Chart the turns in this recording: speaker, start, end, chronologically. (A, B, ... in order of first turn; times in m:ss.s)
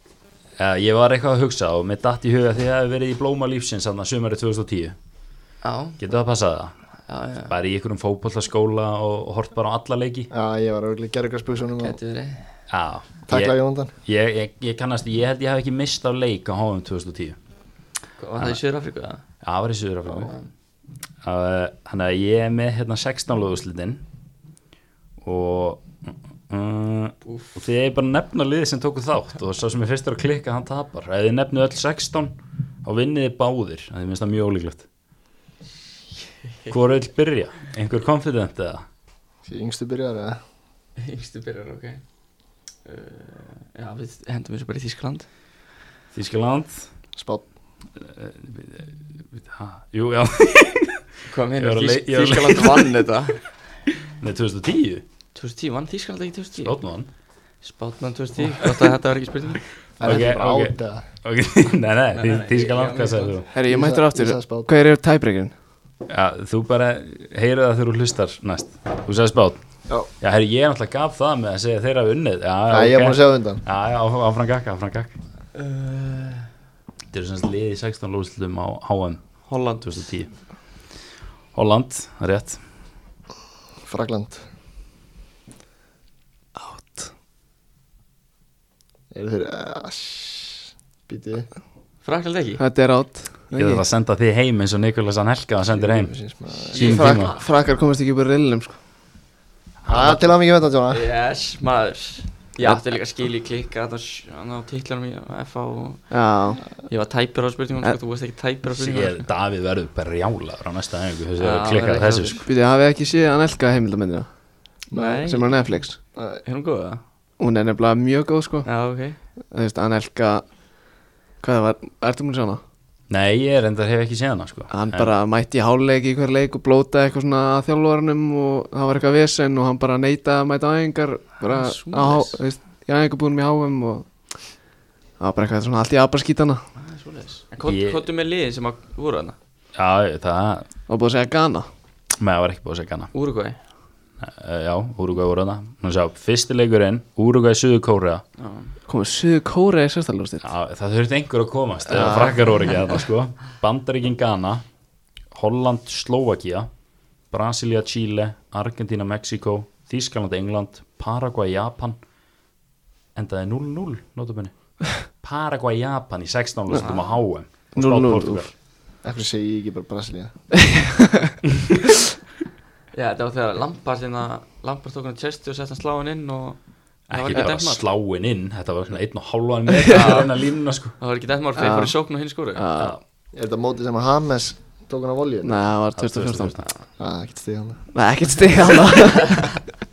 0:00.6-0:04.9 A
0:05.6-0:06.0 B
0:06.0-0:06.7 A
0:07.1-0:07.5 B
0:07.5-0:10.3 A
0:10.3-0:12.0 C
0:11.8-0:12.4 B
0:12.7-0:17.4 A
0:13.3-0:13.9 C
0:18.2-0:19.2 B
0:19.4-0:20.4 A
0:21.2-0:24.0 A
0:25.2-0:34.8 A
0:27.2-0:27.6 B
0:36.7-0:38.8 A
0:39.4-0:40.4 C
0:41.0-0:42.0 B
0:42.8-0:45.2 B
0:46.1-0:46.9 A
0:47.2-0:47.4 C
0:48.0-0:53.0 A
0:51.3-0:53.5 B
0:54.2-0:55.0 A
0:55.3-0:56.8 B
0:56.6-0:57.1 A
0:57.6-0:59.7 B
1:00.0-1:01.0 C
1:00.0-1:03.5 A
1:02.1-1:03.4 B
1:03.5-1:05.5 D
1:03.7-1:04.7 C
1:06.1-1:09.6 A
1:10.2-1:15.2 A
1:12.7-1:13.6 C
1:15.5-1:16.5 B
1:17.1-1:20.3 A
1:19.4-1:20.1 B
1:21.5-1:22.6 A
1:23.9-1:24.4 C
1:26.6-1:27.1 D
1:29.1-1:31.5 C
1:32.0-1:32.6 B
1:32.6-1:33.8 D
1:33.6-1:36.2 A
1:35.7-1:36.9 C
1:36.7-1:37.4 A
1:36.7-1:37.4 B
1:36.8-1:38.8 D
1:39.8-1:40.2 A
1:39.9-1:41.0 C
1:40.9-1:49.2 B
1:46.1-1:46.6 D
1:48.8-1:52.4 A
1:51.4-1:52.4 B
1:52.4-1:56.0 D
1:54.9-1:55.8 B
1:56.4-1:57.0 B
1:57.4-1:58.7 D
1:58.6-1:59.2 B
1:59.5-2:00.5 D
2:01.4-2:02.6 D
2:03.1-2:05.1 A
2:04.7-2:14.3 D
2:11.4-2:12.4 B
2:15.2-2:16.6 D
2:16.8-2:19.4 B
2:17.6-2:18.0 A
2:19.7-2:20.7 A
2:20.9-2:21.7 D
2:22.2-2:23.1 A
2:23.1-2:23.6 B
2:24.2-2:28.2 A
2:28.4-2:28.7 B
2:28.9-2:30.5 D
2:30.4-2:34.6 A
2:31.9-2:32.3 D
2:35.3-2:36.7 A
2:37.3-2:42.0 A
2:43.1-2:48.5 A
2:46.8-2:47.1 B
2:47.7-2:48.5 D
2:49.0-2:50.7 C
2:50.6-2:51.3 D
2:52.9-2:57.8 B
2:57.1-3:00.9 A
2:59.9-3:02.6 B
3:01.6-3:01.9 D
3:02.5-3:03.0 D
3:03.3-3:05.6 C
3:05.4-3:06.6 D
3:05.9-3:06.7 A
3:07.0-3:07.9 C
3:07.9-3:09.6 D